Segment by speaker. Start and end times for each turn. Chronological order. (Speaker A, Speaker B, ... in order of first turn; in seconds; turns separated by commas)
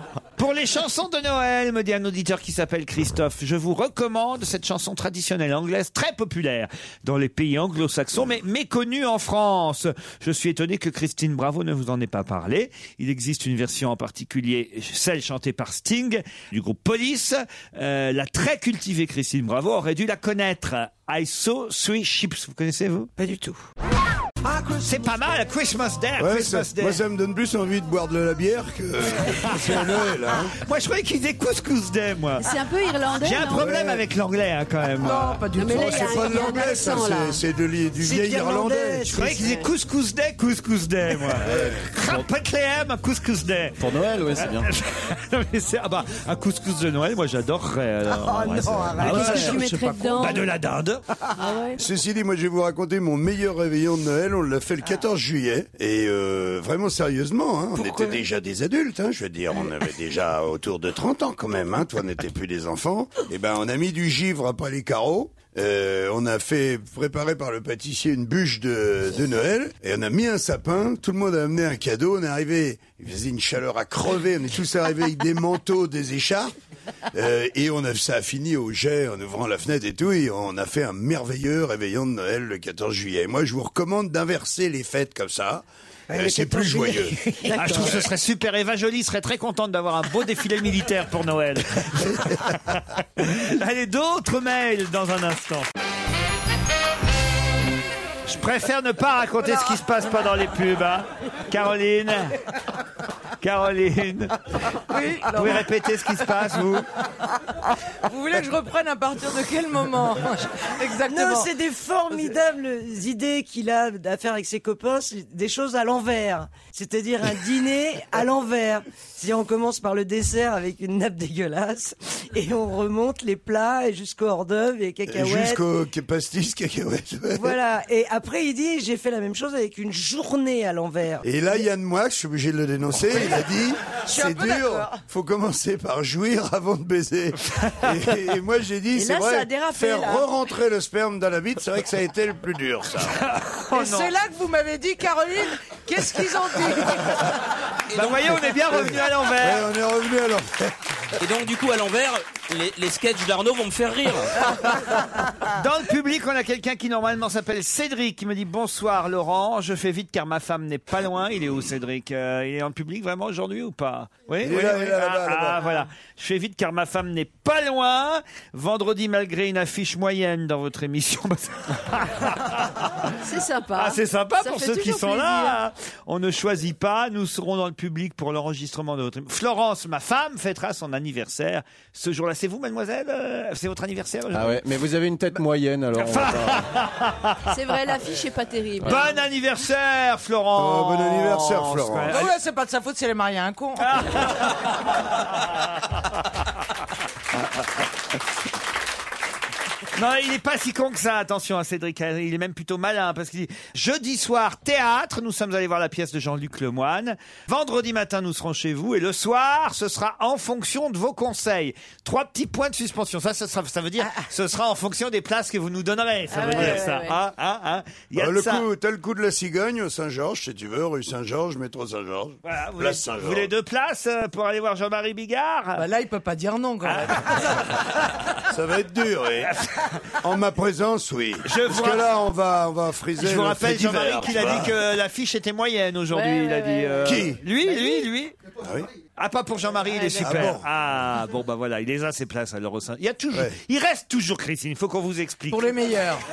Speaker A: 0.4-23.1, Speaker B: 23.2-23.6, Speaker A: 24.5-27.0, Speaker C: 26.2-30.6, Speaker A: 29.4-30.0, Speaker A: 30.6-32.5, Speaker D: 32.4-33.8, Speaker A: 33.2-35.4, Speaker C: 33.6-34.0, Speaker D: 35.0-37.4, Speaker C: 35.0-39.1, Speaker B: 38.0-39.5, Speaker A: 39.1-43.8, Speaker D: 39.2-39.7, Speaker C: 41.4-41.9, Speaker E: 43.8-44.7, Speaker A: 44.4-49.6, Speaker B: 48.1-49.9, Speaker D: 49.0-50.5, Speaker C: 49.3-49.6, Speaker A: 50.1-51.0, Speaker D: 51.4-51.8, Speaker C: 51.8-76.5, Speaker B: 57.7-58.2, Speaker C: 77.1-87.9, Speaker B: 86.1-88.0, Speaker A: 87.5-95.7, Speaker A: 98.2-102.4, Speaker F: 99.5-99.8, Speaker A: 103.4-104.4, Speaker F: 104.9-105.7, Speaker A: 105.3-106.8, Speaker F: 108.0-111.5, Speaker B: 111.0-125.6, Speaker C: 125.1-127.6, Speaker B: 127.3-131.6, Speaker C: 131.2-143.2, Speaker F: 133.1-133.4, Speaker F: 134.1-135.0, Speaker D: 138.9-140.3, Speaker A: 143.2-144.1, Speaker F: 143.7-147.2, Speaker A: 147.9-149.7, Speaker G: 147.9-148.2, Speaker C: 148.7-150.7, Speaker G: 151.2-154.3, Speaker A: 155.5-172.9, Speaker C: 164.4-165.6, Speaker D: 173.2-175.6, Speaker A: 173.8-184.6, Speaker E: 184.3-186.7, Speaker A: 185.9-187.5, Speaker D: 187.5-189.1, Speaker A: 188.8-192.3, Speaker C: 190.6-192.2, Speaker F: 192.1-193.9, Speaker A: 193.8-194.7, Speaker A: 199.9-218.6, Speaker B: 214.0-214.3, Speaker D: 216.3-217.2, Speaker C: 216.5-216.8, Speaker C: 218.1-223.5, Speaker A: 222.4-225.9, Speaker F: 225.8-227.8, Speaker A: 226.8-227.6, Speaker C: 228.5-229.5, Speaker C: 230.2-234.8, Speaker A: 231.4-232.1, Speaker A: 233.2-238.3, Speaker D: 236.1-238.1, Speaker C: 237.0-237.4, Speaker C: 238.6-238.9, Speaker A: 239.2-245.8, Speaker D: 239.9-240.5, Speaker C: 240.2-240.7, Speaker F: 245.5-246.2